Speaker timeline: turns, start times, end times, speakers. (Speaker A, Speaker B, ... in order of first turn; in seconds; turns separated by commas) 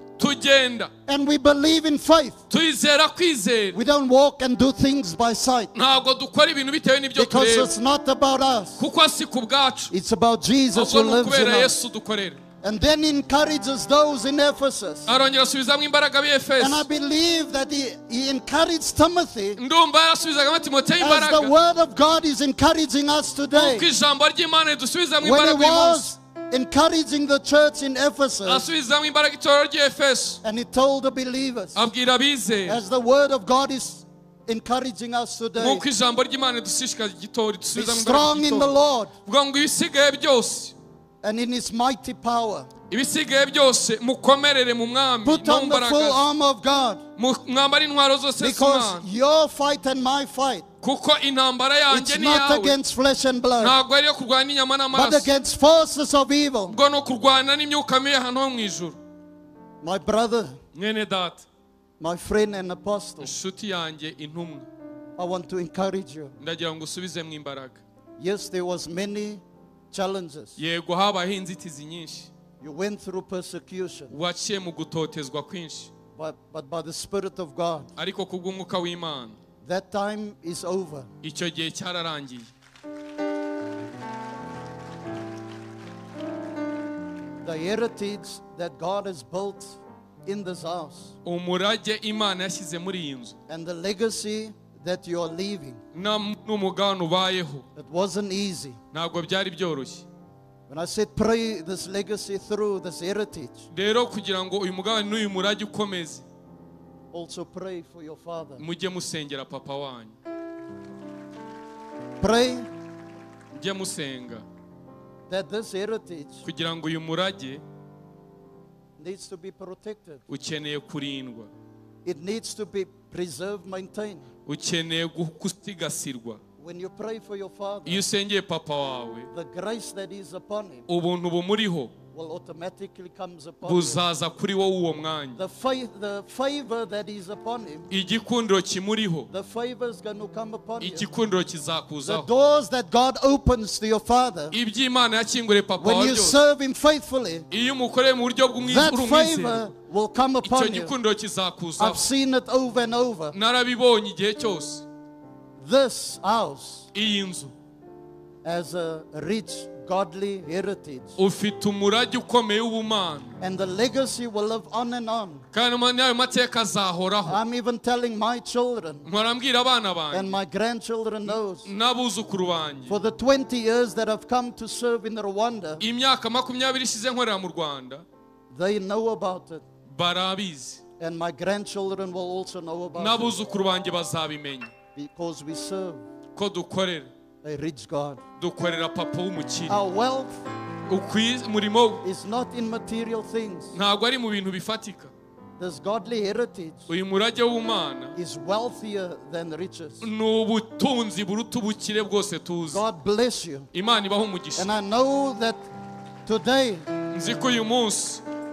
Speaker A: 0.2-0.9, Speaker B: 1.1-2.4, Speaker A: 2.5-3.8, Speaker B: 3.7-5.7, Speaker A: 5.8-7.7, Speaker B: 7.2-8.8, Speaker A: 8.8-9.9, Speaker B: 9.9-11.7, Speaker A: 10.7-12.4, Speaker B: 12.6-15.1, Speaker A: 15.1-16.9, Speaker B: 16.6-19.6, Speaker A: 19.6-21.5, Speaker B: 21.0-23.9, Speaker A: 23.5-26.1, Speaker B: 25.2-28.7, Speaker A: 28.5-30.4, Speaker B: 30.4-31.8, Speaker A: 31.8-32.8, Speaker B: 32.7-35.9, Speaker A: 35.6-38.7, Speaker B: 37.8-39.1, Speaker A: 39.3-40.8, Speaker B: 41.2-42.7, Speaker A: 42.9-46.2, Speaker B: 45.2-47.0, Speaker A: 47.2-49.1, Speaker B: 48.4-50.7, Speaker A: 50.8-52.8, Speaker B: 51.9-53.8, Speaker A: 53.6-55.3, Speaker B: 54.9-56.8, Speaker A: 56.7-59.0, Speaker B: 59.8-60.6, Speaker A: 60.8-61.5, Speaker B: 62.0-63.3, Speaker A: 63.2-64.7, Speaker B: 65.2-66.3, Speaker A: 66.4-67.8, Speaker B: 68.2-70.6, Speaker A: 70.6-72.3, Speaker B: 72.6-74.1, Speaker A: 74.1-75.9, Speaker B: 76.2-77.9, Speaker A: 78.0-79.4, Speaker B: 79.6-81.1, Speaker A: 81.2-82.5, Speaker B: 87.4-91.1, Speaker A: 91.2-93.4, Speaker B: 93.5-95.8, Speaker A: 95.9-97.7, Speaker B: 97.8-98.8, Speaker A: 98.9-100.0, Speaker B: 100.7-103.7, Speaker A: 103.7-106.3, Speaker B: 107.1-108.6, Speaker A: 108.6-110.2, Speaker B: 112.2-112.7, Speaker A: 113.5-114.5, Speaker B: 115.3-116.4, Speaker A: 116.5-117.6, Speaker B: 119.0-120.2, Speaker A: 120.3-121.5, Speaker B: 122.0-124.3, Speaker A: 124.5-126.4, Speaker B: 126.6-128.1, Speaker A: 127.8-129.3, Speaker B: 129.3-130.9, Speaker A: 130.9-131.9, Speaker B: 132.1-134.0, Speaker A: 133.6-135.4, Speaker B: 135.4-137.9, Speaker A: 137.9-139.3, Speaker B: 139.3-141.1, Speaker A: 140.8-142.3, Speaker B: 142.0-144.6, Speaker A: 144.5-146.4, Speaker B: 145.8-147.5, Speaker A: 147.5-149.7, Speaker B: 148.7-150.9, Speaker A: 150.4-152.0, Speaker B: 151.8-153.4, Speaker A: 153.3-154.8, Speaker B: 155.6-156.9, Speaker A: 156.9-157.5, Speaker B: 158.4-161.2, Speaker A: 161.2-163.3, Speaker B: 163.4-165.4, Speaker A: 165.5-167.4, Speaker B: 167.2-169.1, Speaker A: 169.1-170.3, Speaker B: 170.1-171.7, Speaker A: 171.2-173.0, Speaker B: 172.9-175.8, Speaker A: 175.8-178.1, Speaker B: 178.5-179.6, Speaker A: 179.9-180.8, Speaker B: 181.0-183.4, Speaker A: 182.9-184.7, Speaker B: 185.0-186.0, Speaker A: 186.3-187.1, Speaker B: 187.4-188.2, Speaker A: 188.4-189.8, Speaker B: 189.7-190.4, Speaker A: 190.9-192.0, Speaker B: 192.0-193.7, Speaker A: 193.7-195.1, Speaker B: 195.6-196.9, Speaker A: 196.9-198.2, Speaker B: 198.2-200.1, Speaker A: 200.0-202.8, Speaker B: 202.7-203.7, Speaker A: 203.7-204.7, Speaker B: 204.6-205.6, Speaker B: 206.3-206.9, Speaker A: 207.1-208.2